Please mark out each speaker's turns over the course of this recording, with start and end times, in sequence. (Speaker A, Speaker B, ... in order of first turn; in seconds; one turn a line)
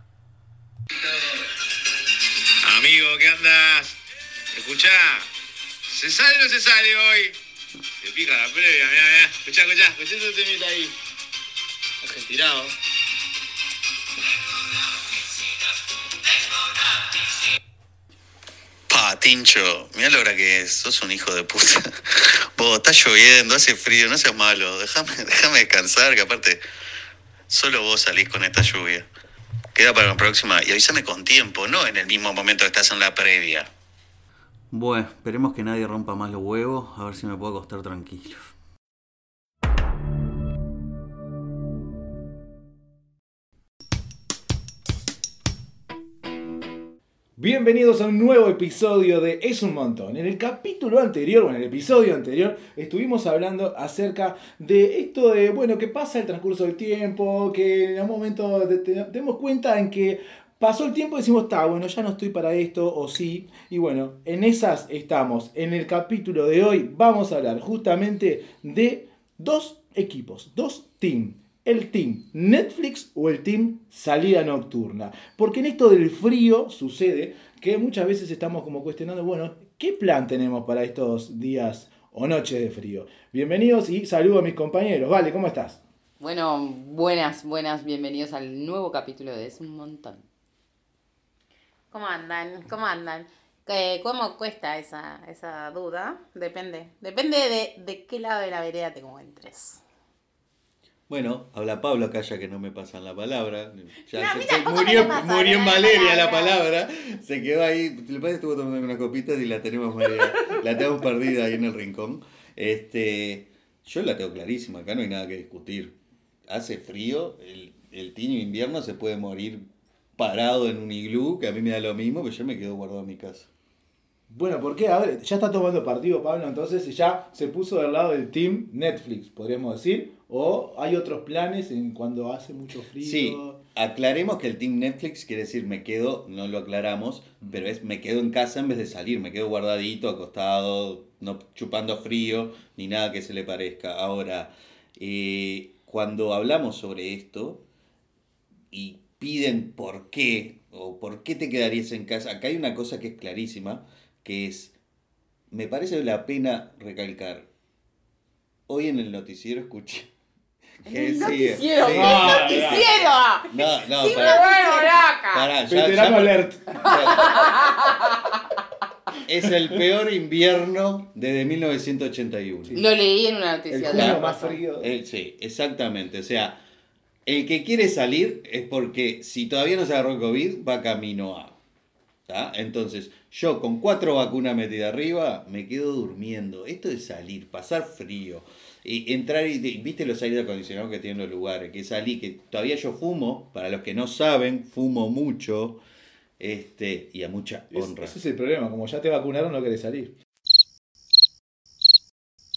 Speaker A: 2.6-3.9
Speaker A: 4.5-5.3
Speaker A: 5.9-7.3
Speaker A: 8.0-10.9
Speaker A: 12.0-12.7
Speaker B: 18.9-26.6
Speaker B: 27.5-29.1
Speaker B: 29.7-33.7
Speaker B: 34.7-38.4
Speaker C: 47.4-85.8
Speaker D: 86.2-90.2
Speaker E: 91.9-99.8
Speaker B: 101.1-115.9
Speaker E: 104.1-106.5
Speaker B: 116.5-119.6
Speaker B: 120.2-123.5
Speaker C: 124.3-133.6
Speaker B: 133.0-147.6
Speaker B: 148.7-154.7
Speaker B: 155.5-157.5
Speaker B: 158.7-160.1
Speaker D: 160.8-163.0
Speaker B: 160.9-164.4
Speaker C: 161.8-162.9
Speaker E: 162.1-163.5
Speaker D: 164.0-165.5
Speaker E: 164.0-164.9
Speaker B: 165.3-167.4
Speaker C: 165.7-166.9
Speaker D: 166.9-168.3
Speaker B: 169.2-172.8
Speaker D: 172.7-174.6
Speaker C: 173.7-174.9
Speaker B: 173.9-174.2
Speaker B: 174.8-176.6
Speaker B: 177.2-181.6
Speaker B: 182.3-195.8
Speaker B: 196.4-198.2
Speaker C: 197.7-200.1